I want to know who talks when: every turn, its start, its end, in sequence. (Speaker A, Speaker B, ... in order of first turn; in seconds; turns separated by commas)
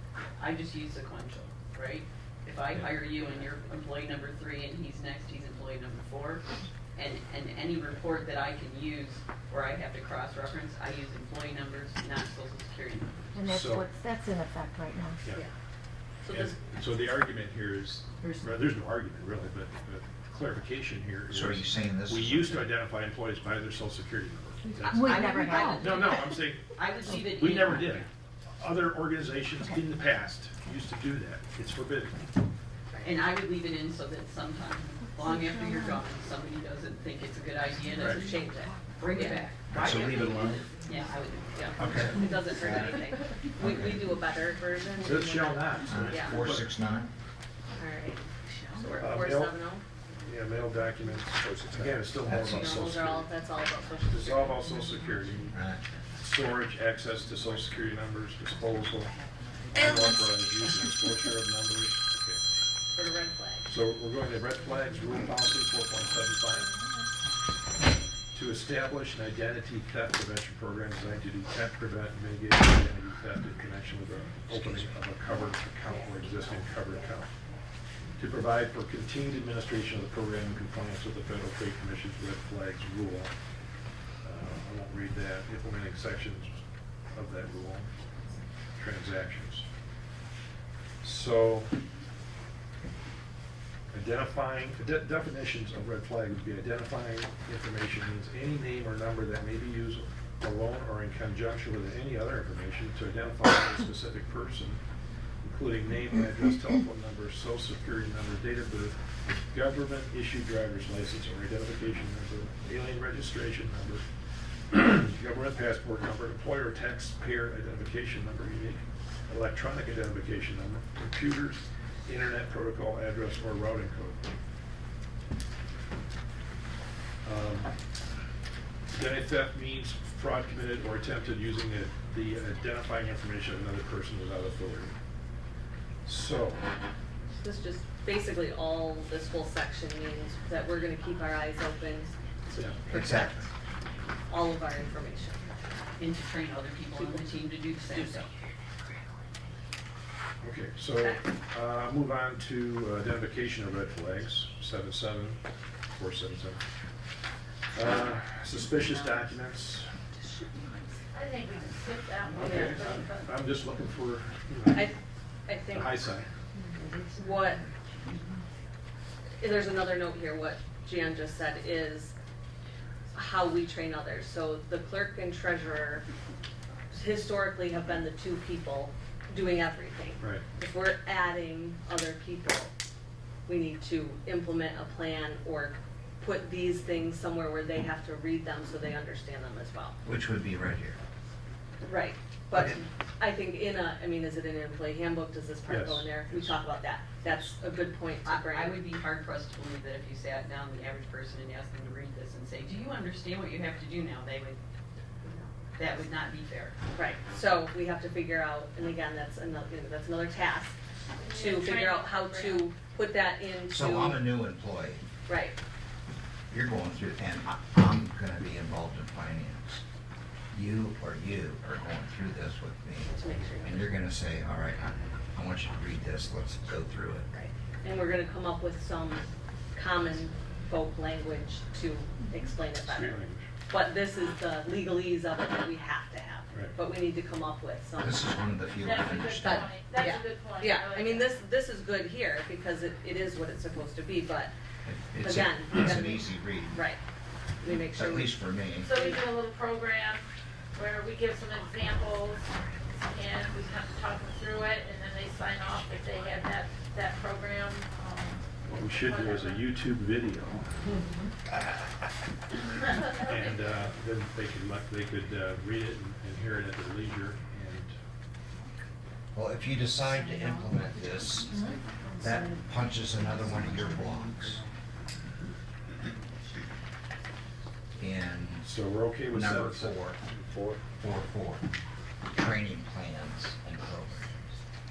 Speaker A: 0.4-6.4, Speaker B: 2.7-3.0, Speaker A: 6.9-13.2, Speaker C: 13.3-15.2, Speaker B: 13.4-13.9, Speaker B: 15.2-15.5, Speaker D: 16.2-16.6, Speaker B: 16.3-32.3, Speaker E: 21.3-22.7, Speaker C: 24.6-26.4, Speaker A: 24.8-28.1, Speaker A: 33.0-38.4, Speaker C: 35.1-36.0, Speaker C: 37.9-39.4, Speaker B: 37.9-38.4, Speaker D: 38.2-39.4, Speaker A: 39.0-43.0, Speaker E: 39.7-40.6, Speaker C: 40.6-41.1, Speaker D: 41.5-46.4, Speaker E: 41.8-43.0, Speaker C: 41.9-43.5, Speaker E: 43.6-44.2, Speaker B: 45.0-46.7, Speaker E: 45.9-47.1, Speaker D: 47.8-48.2, Speaker D: 48.8-49.8, Speaker B: 49.0-49.5, Speaker B: 50.1-53.4, Speaker E: 51.6-53.0, Speaker D: 52.2-54.8, Speaker B: 54.0-55.5, Speaker C: 54.6-55.6, Speaker E: 55.5-55.8, Speaker B: 56.1-59.2, Speaker C: 58.7-60.2, Speaker B: 59.7-62.4, Speaker D: 62.9-63.6, Speaker B: 63.6-66.7, Speaker B: 68.3-77.3, Speaker C: 76.5-77.0, Speaker B: 78.2-83.3, Speaker B: 84.2-87.9, Speaker B: 88.7-89.7, Speaker B: 91.0-91.8, Speaker B: 93.9-104.8, Speaker B: 105.4-114.0, Speaker B: 114.7-124.3, Speaker B: 127.2-127.7, Speaker B: 128.9-134.9, Speaker B: 136.0-136.7, Speaker D: 137.3-143.5, Speaker B: 142.6-142.9, Speaker E: 142.9-143.5, Speaker D: 144.3-145.6, Speaker A: 146.0-148.3, Speaker D: 146.9-147.2, Speaker B: 150.4-156.6, Speaker D: 150.9-151.3, Speaker B: 157.7-160.0, Speaker F: 161.1-163.3, Speaker B: 162.3-164.9, Speaker D: 162.4-162.8, Speaker D: 165.4-166.0, Speaker B: 165.7-166.3, Speaker C: 166.7-167.2, Speaker D: 167.1-167.6, Speaker D: 169.4-172.1, Speaker D: 173.1-176.0, Speaker D: 176.9-182.7, Speaker B: 180.2-180.4, Speaker D: 183.4-190.0, Speaker E: 190.0-191.0, Speaker D: 191.8-198.8, Speaker B: 195.7-196.1, Speaker A: 198.2-204.6, Speaker A: 205.7-206.7, Speaker D: 206.9-210.8, Speaker F: 211.2-212.7, Speaker D: 211.3-214.2, Speaker E: 213.7-215.0, Speaker D: 215.3-215.6, Speaker E: 216.5-219.8, Speaker E: 220.5-227.3, Speaker D: 223.1-223.9, Speaker D: 227.3-238.3, Speaker B: 232.8-233.5, Speaker B: 236.5-236.8, Speaker E: 238.0-239.8, Speaker F: 238.8-241.3, Speaker D: 239.4-244.5, Speaker E: 244.8-246.8, Speaker D: 245.2-247.0, Speaker D: 247.6-248.4, Speaker E: 247.9-248.9, Speaker F: 248.8-252.5, Speaker D: 248.9-249.2, Speaker F: 253.0-259.6, Speaker B: 258.6-260.9, Speaker F: 262.9-263.9, Speaker B: 263.2-267.9, Speaker E: 269.3-274.6, Speaker C: 271.5-272.5, Speaker C: 273.3-274.2, Speaker E: 278.0-278.7, Speaker B: 278.6-280.8, Speaker E: 279.3-280.2, Speaker E: 281.0-281.6, Speaker E: 282.3-284.3